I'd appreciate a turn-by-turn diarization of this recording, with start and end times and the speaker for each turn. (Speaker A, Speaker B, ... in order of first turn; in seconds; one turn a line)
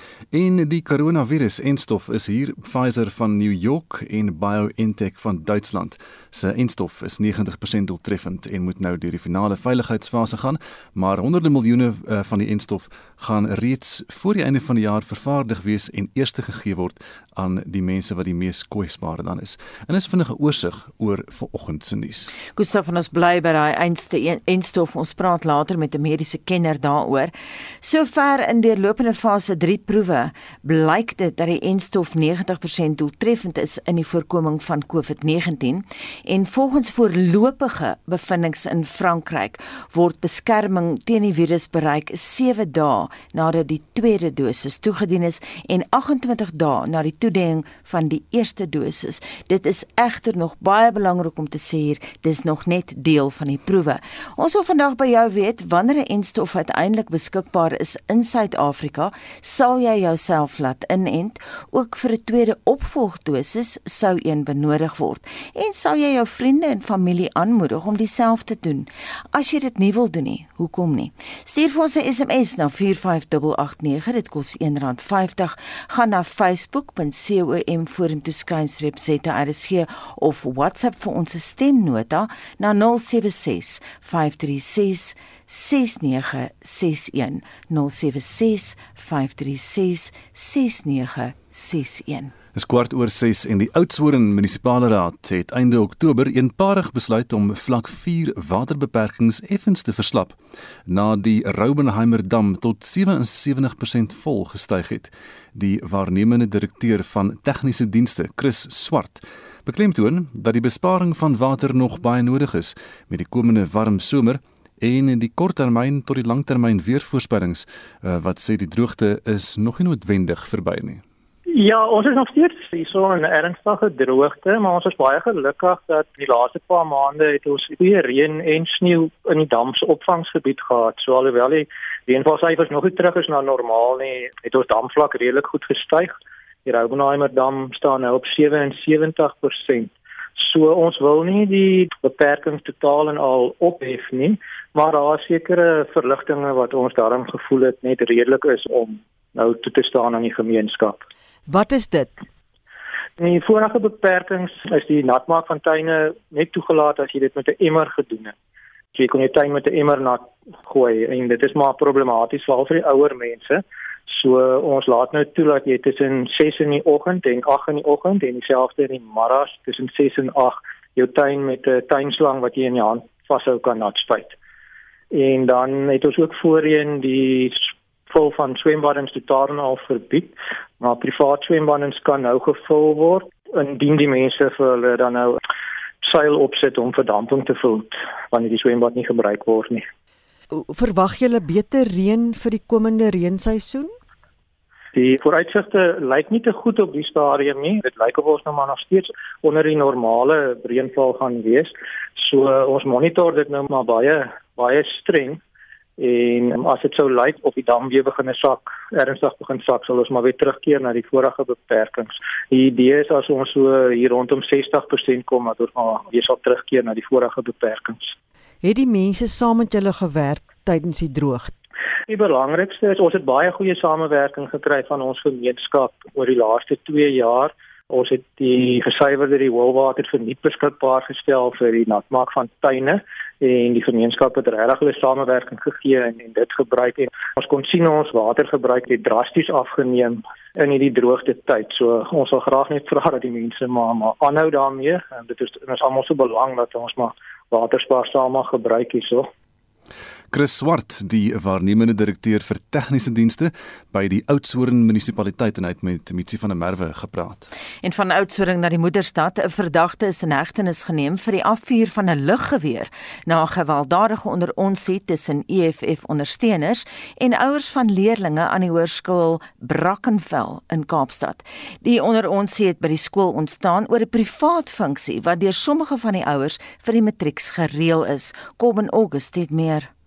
Speaker A: 0.3-22.3
Speaker B: 22.5-92.3
Speaker A: 92.5-100.3
Speaker A: 100.9-121.0
Speaker C: 121.5-136.1
Speaker C: 136.7-151.0
Speaker D: 151.5-152.1
Speaker C: 153.2-158.3
Speaker C: 158.9-174.3
Speaker C: 175.1-185.4
Speaker C: 186.0-189.8
Speaker D: 190.5-193.9
Speaker C: 194.9-205.4
Speaker C: 206.0-218.1
Speaker D: 218.6-221.5
Speaker C: 222.1-249.3
Speaker A: 250.3-257.5
Speaker B: 257.8-279.9